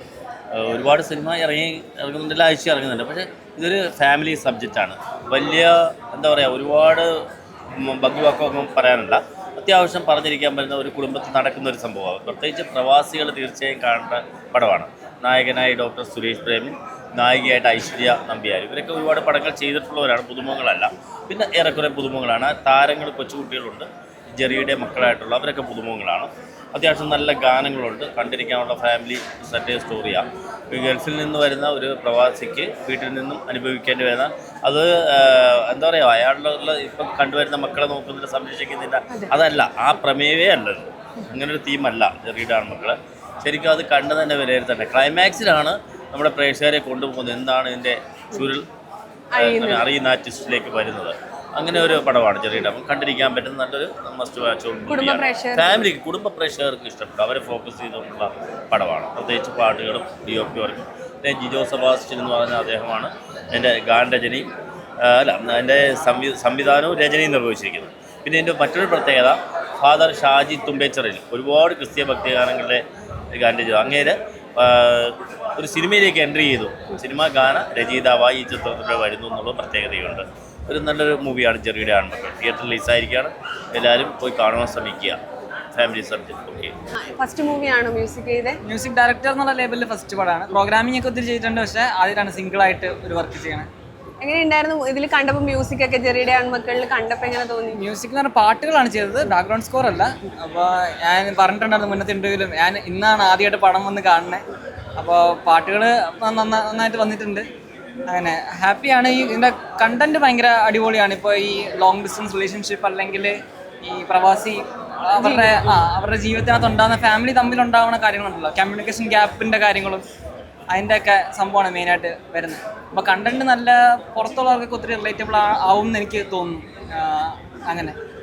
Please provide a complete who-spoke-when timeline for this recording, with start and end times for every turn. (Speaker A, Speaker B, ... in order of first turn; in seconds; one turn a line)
Speaker A: 0.5-7.0
Speaker A: 7.8-48.6
Speaker B: 49.3-49.9
Speaker A: 49.4-64.5
Speaker B: 54.9-55.8
Speaker A: 65.0-72.8
Speaker A: 73.3-85.2
Speaker A: 85.7-86.7
Speaker B: 87.1-88.6
Speaker C: 88.6-93.7
Speaker B: 94.2-97.8
Speaker C: 97.8-104.4
Speaker C: 105.0-107.4
Speaker C: 108.1-120.0
Speaker B: 115.2-115.8
Speaker C: 120.7-128.0